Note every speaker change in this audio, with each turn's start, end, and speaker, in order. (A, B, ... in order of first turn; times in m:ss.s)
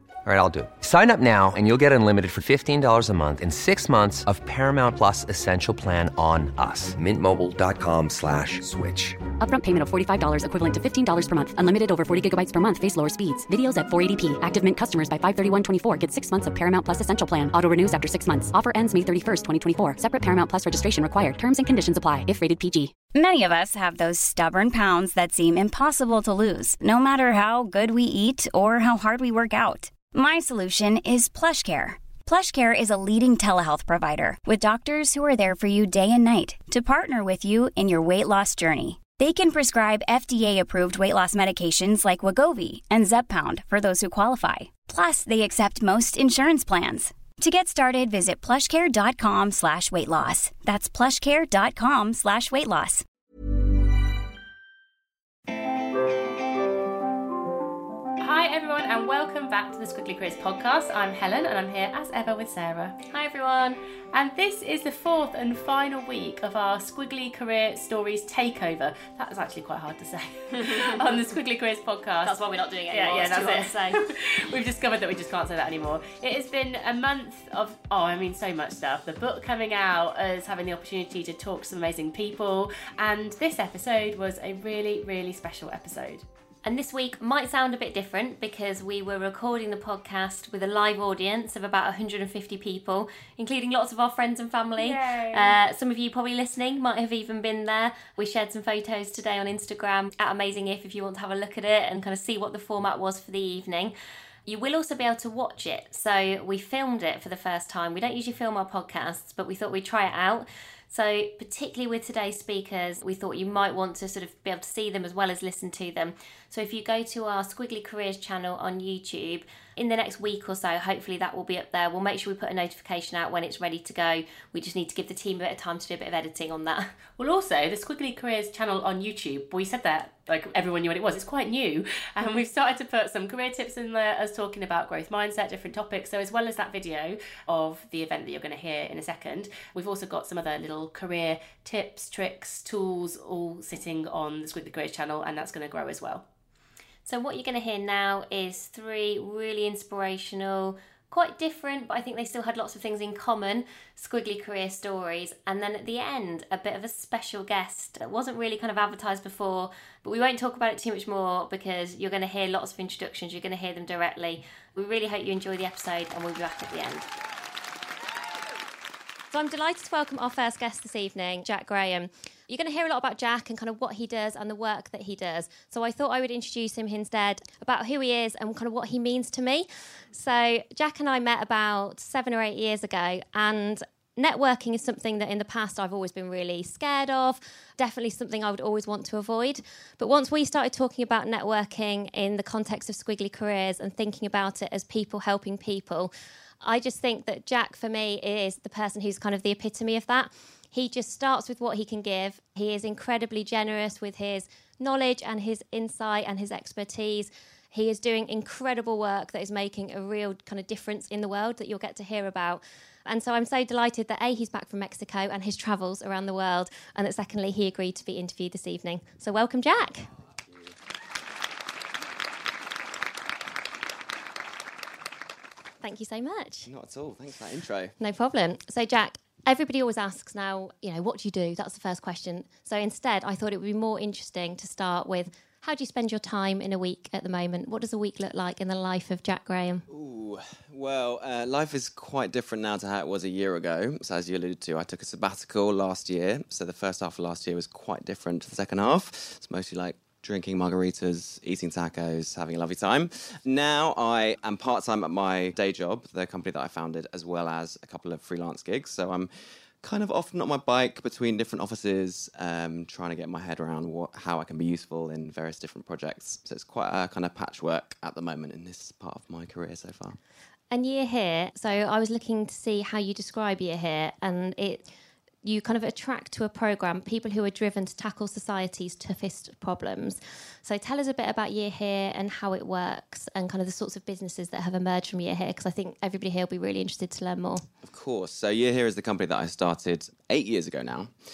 0:00.2-0:09.2 A
0:09.4-0:23.0 B
0:23.1-0:53.0 C
0:58.2-1:03.0 D
1:03.1-1:03.8 E
1:04.1-1:26.2 D
1:10.7-1:11.0 E
1:12.2-1:14.0 E
1:26.6-1:43.9 E
1:34.8-1:35.6 D
1:44.4-2:06.9 E
2:07.2-2:26.2 D
2:27.0-2:47.1 E
2:49.3-3:16.1 E
3:16.6-3:40.1 E
3:45.8-3:46.7 E
3:46.6-3:48.0 F
3:48.0-3:59.8 E
3:59.9-4:19.3 F
4:19.8-4:30.2 F
4:30.7-4:34.8 E
4:35.4-4:47.6 E
4:47.8-4:51.1 F